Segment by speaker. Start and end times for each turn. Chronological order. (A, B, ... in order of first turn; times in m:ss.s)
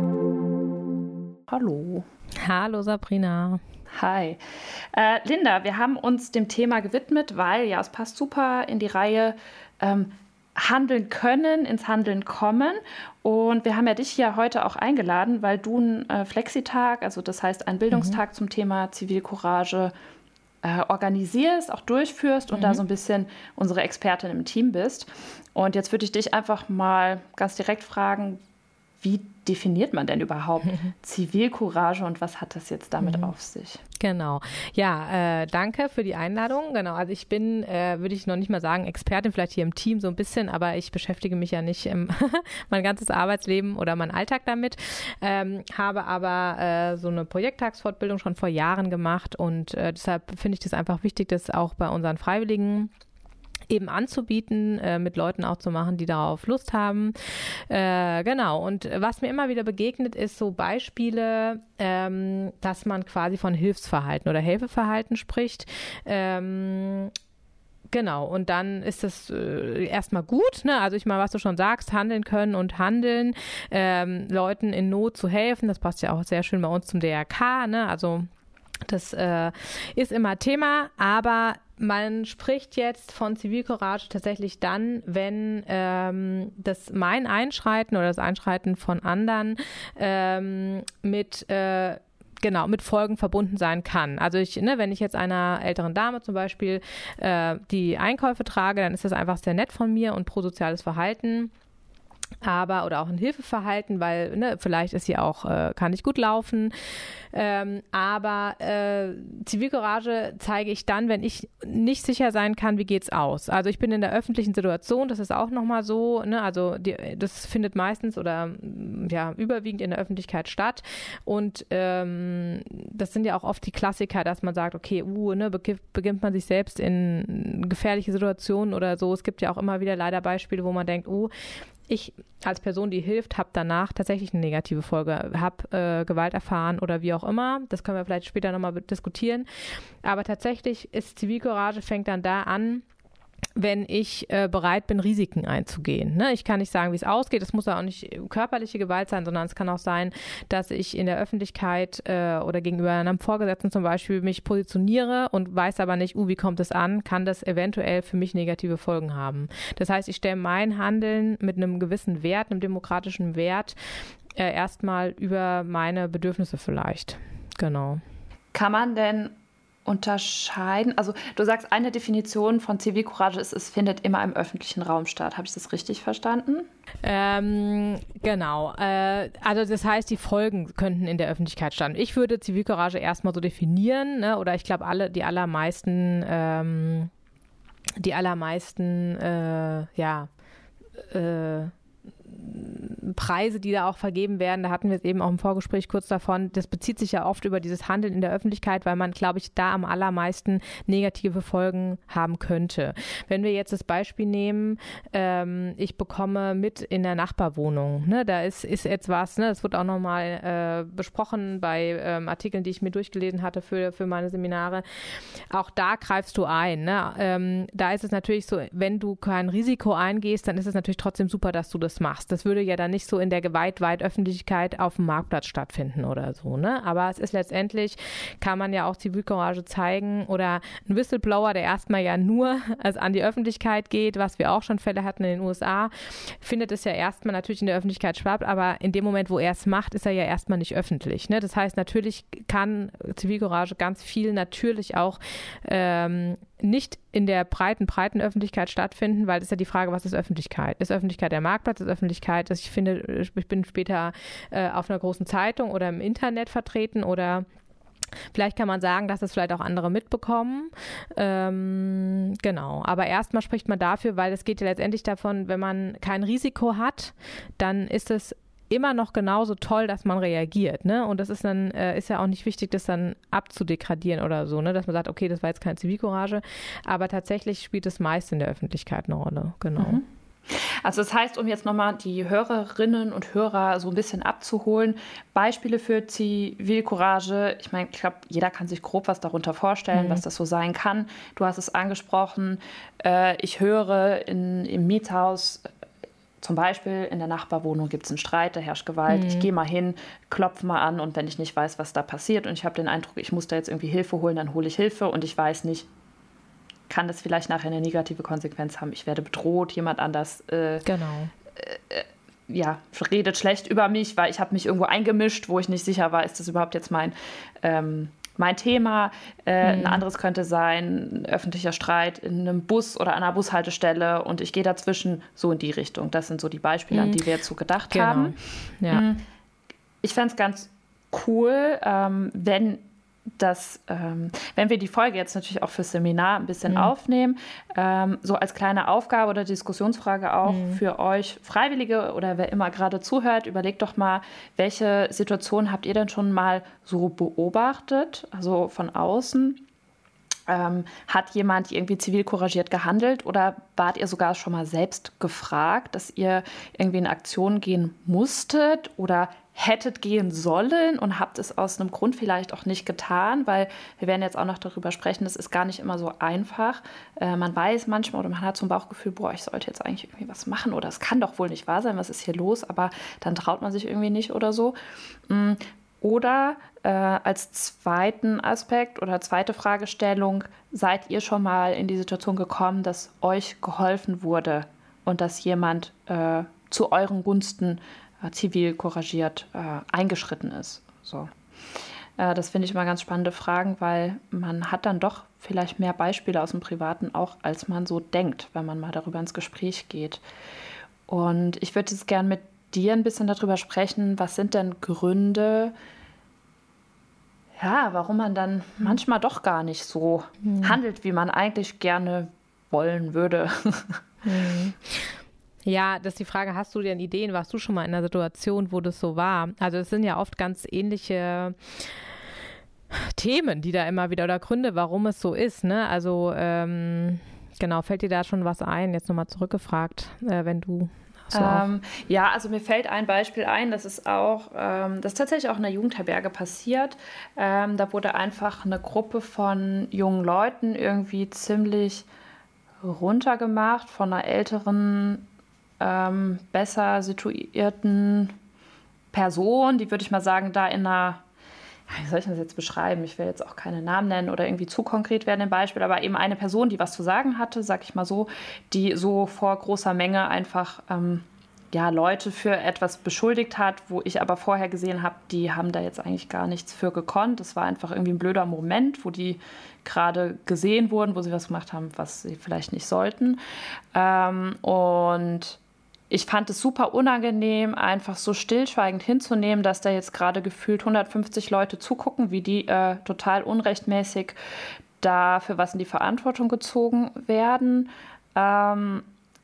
0:01.5-0:02.1 A
0:02.4-0:03.6 B
0:03.9-0:04.4 A
0:04.9-0:19.9 A
0:17.9-0:18.2 B
0:20.6-0:28.4 A
0:22.5-0:22.8 B
0:29.0-0:33.8 A
0:33.0-0:33.3 B
0:34.0-0:52.9 B
0:53.7-1:07.1 B
1:07.9-1:18.3 B
1:18.9-1:41.5 B
1:42.4-1:46.7 B
1:47.3-2:11.3 B
2:11.9-2:19.4 B
2:20.0-2:22.8 B
2:23.6-2:43.8 B
2:44.4-2:48.0 B
2:48.5-2:49.3 A
2:49.8-2:56.7 A
2:57.0-3:07.1 B
3:08.0-3:10.3 B
3:11.0-4:17.4 B
4:18.3-4:40.0 B
4:39.8-4:55.7 A
4:49.9-4:50.2 B
4:56.4-5:05.9 A
4:59.1-4:59.5 B
5:06.9-5:10.9 A
5:10.8-5:11.3 B
5:11.6-5:28.4 A
5:19.6-5:20.0 B
5:26.9-5:27.2 B
5:27.9-5:29.1 B
5:28.9-5:29.2 A
5:30.0-5:32.8 A
5:33.4-5:49.6 A
5:40.4-5:40.8 B
5:50.5-6:14.8 A
6:15.3-6:31.3 A
6:32.2-6:40.2 A
6:41.1-6:45.7 A
6:47.6-6:54.0 A
6:50.4-6:50.8 B
6:54.2-7:01.9 B
7:02.9-7:11.7 B
7:11.3-7:22.1 A
7:22.8-7:25.2 A
7:25.8-7:28.3 A
7:29.1-7:31.2 A
7:31.9-7:53.4 A
7:53.9-7:55.6 A
7:56.1-8:04.4 A
8:05.0-8:09.0 A